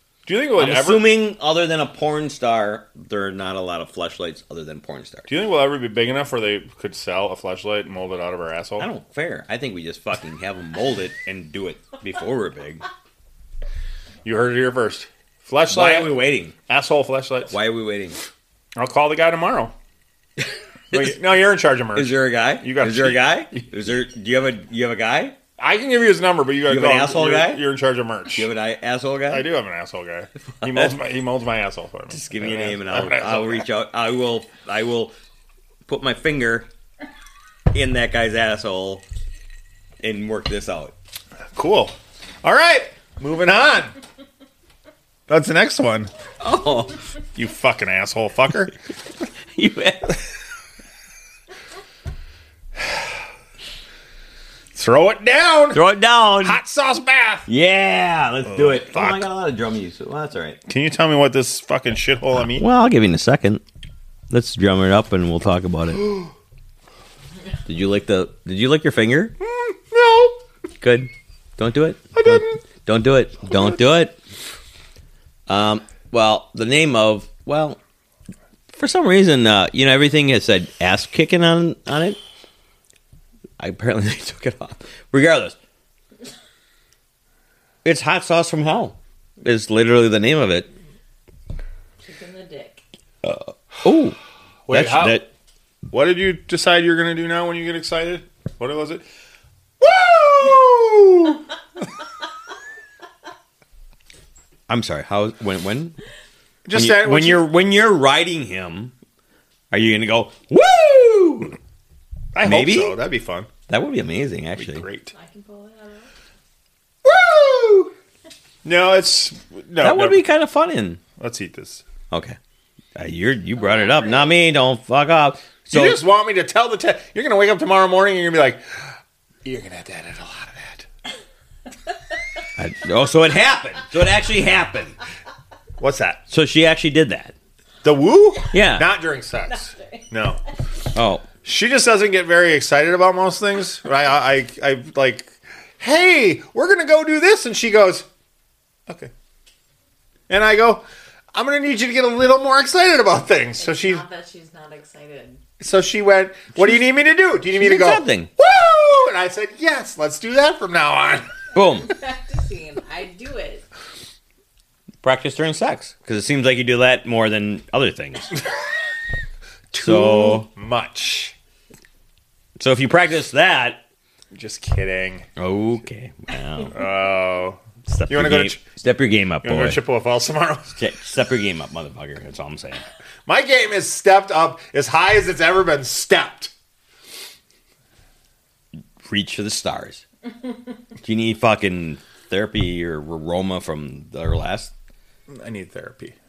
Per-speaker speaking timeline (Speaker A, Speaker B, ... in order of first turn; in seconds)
Speaker A: 0.2-1.2, 5.3-8.9, 14.2-17.6, 18.8-19.7, 20.9-23.4, 25.6-28.5, 29.3-33.6, 41.5-44.0, 45.3-46.1, 47.3-48.7, 54.7-55.8, 56.4-57.5, 58.5-59.2, 60.7-62.7, 69.4-70.4, 72.1-72.6, 73.5-73.8, 94.7-95.2, 95.9-99.0, 99.8-101.4, 106.7-107.5, 112.3-113.5, 114.5-115.1, 117.0-117.9, 118.6-120.2, 121.2-121.8, 125.7-128.9, 129.4-130.8, 135.8-136.2, 137.8-140.4, 141.4-148.1, 150.3-154.0, 155.6-161.3, 169.7-171.3, 174.3-175.3, 176.7-178.6, 179.4-180.7, 183.2-186.5, 195.3-196.1
Speaker B: 0.6-5.3, 8.8-12.8, 15.7-16.5, 17.5-18.2, 21.9-25.4, 26.6-27.6, 28.3-29.5, 30.6-30.9, 32.1-35.1, 35.9-36.7, 37.7-39.0, 40.0-40.9, 46.4-47.0, 49.5-50.1, 55.7-56.6, 57.5-60.6, 62.4-63.6, 64.3-66.1, 67.7-69.3, 70.8-74.2, 75.5-77.8, 78.7-82.2, 83.6-85.5, 87.8-90.7, 93.2-95.3, 104.7-106.0, 106.7-108.9, 109.7-111.6, 112.4-113.0, 113.7-114.9, 119.8-121.0, 122.1-122.4, 123.0-126.0, 132.6-135.0, 136.3-137.3, 138.5-138.9, 140.9-141.3, 157.5-158.3, 161.5-161.9, 165.0-168.3, 169.7-170.5, 172.6-173.8, 175.4-176.8, 177.8-179.8, 180.8-182.8, 189.0-190.0, 191.0-194.7
Speaker C: 92.0-92.8, 115.1-116.1, 123.7-124.0, 139.5-140.0, 153.6-155.4, 161.8-163.7